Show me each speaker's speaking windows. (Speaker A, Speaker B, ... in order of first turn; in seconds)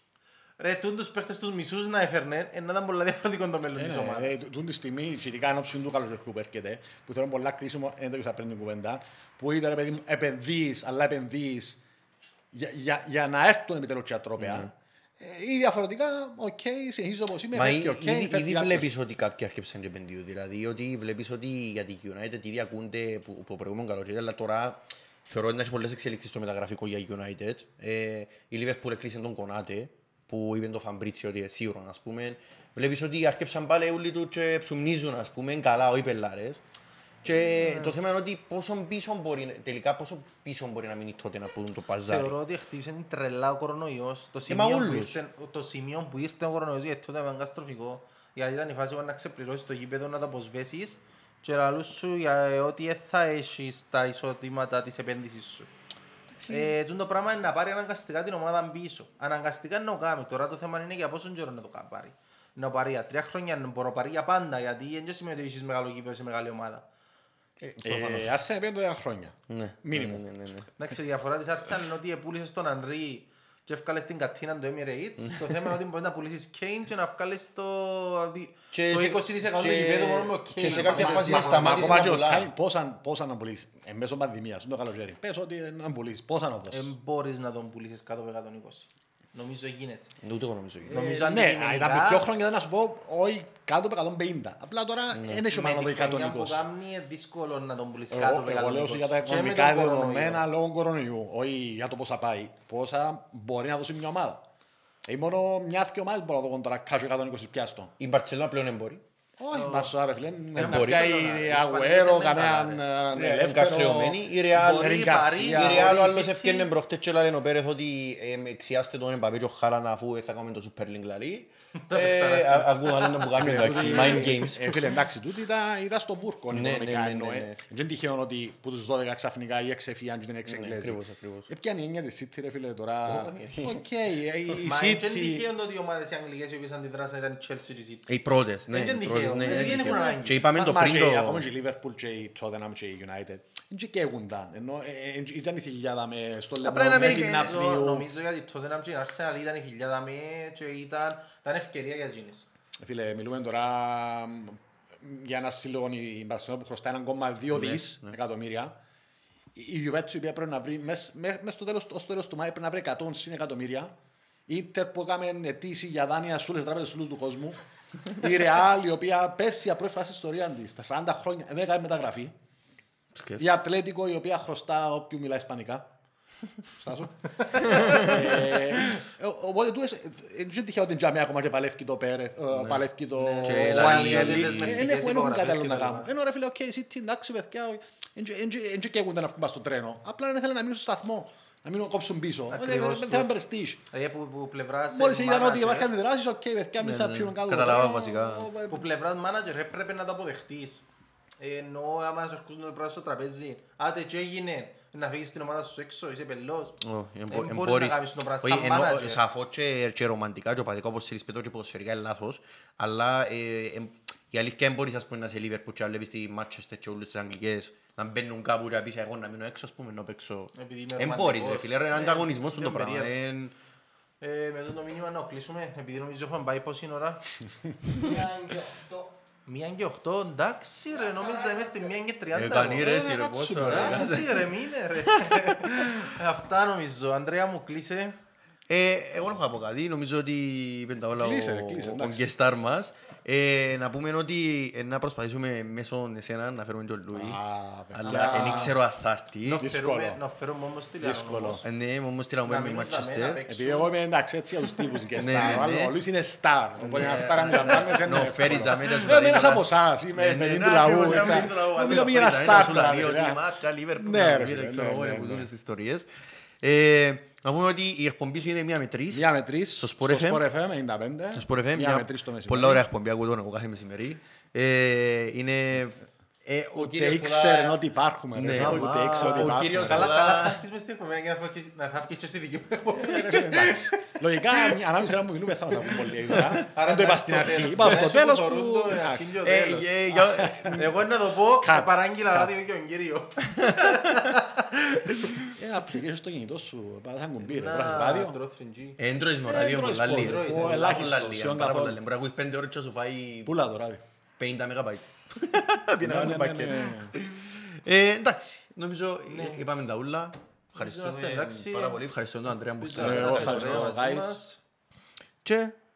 Speaker A: 0.6-4.4, 42.1-55.7, 56.5-66.8, 70.8-82.2, 86.7-90.1, 90.9-92.3, 95.5-100.5, 109.5-109.9, 110.5-112.8, 114.6-116.7, 121.8-124.5, 134.5-138.1, 138.7-140.4, 146.8-152.5, 183.2-186.1, 192.5-193.3, 193.9-195.9, 198.7-200.8, 201.4-206.8, 207.3-209.2, 220.6-223.1, 224.2-227.2, 229.5-238.2, 248.1-248.8, 249.4-251.6, 252.4-253.9, 278.5-283.8, 286.6-290.1, 290.7-295.0, 297.4-299.0, 300.0-301.1, 309.3-309.6, 310.7-312.0, 312.8-314.6
Speaker B: 3.8-11.8, 12.5-18.9, 67.8-70.2, 80.7-86.9, 90.9-96.6, 98.1-104.4, 105.1-107.9, 109.4-116.1, 123.3-135.5, 139.4-148.1, 152.8-158.7, 159.6-163.9, 164.5-172.3, 173.4-175.9, 176.8-193.8, 194.9-198.9, 233.5-234.2, 241.2-242.3, 247.1-248.8, 249.6-250.2, 251.0-251.6, 253.5-263.4, 264.0-265.5, 269.1-272.8, 276.7-280.2, 282.9-289.3, 290.1-290.8, 291.6-292.5, 295.5-298.4, 299.4-302.0, 303.4-304.0, 306.0-307.2, 313.0-314.4
Speaker C: 14.4-14.7, 17.5-36.6, 37.2-42.4, 44.5-45.2, 56.3-56.7, 67.6-68.3, 69.5-70.7, 75.2-75.6, 78.7-82.5, 90.2-91.0, 95.1-95.4, 108.0-109.0, 110.6-111.1, 113.1-124.8, 126.5-127.5, 130.5-131.5, 133.1-133.8, 138.1-141.5, 146.6-147.6, 157.5-158.2, 173.1-173.4, 177.6-178.4, 182.6-182.8, 183.4-184.8, 196.8-198.5, 206.8-223.6, 232.3-234.3, 238.7-247.4, 247.9-249.6, 251.6-253.4, 255.2-255.9, 256.8-266.1, 266.6-269.3, 269.8-270.4, 271.4-277.8, 278.3-280.6, 286.3-286.6, 289.4-290.9, 293.6-294.4, 295.1-295.5, 299.0-303.5, 304.4-313.9, 315.4-315.8
Speaker D: 227.9-229.2, 230.9-232.0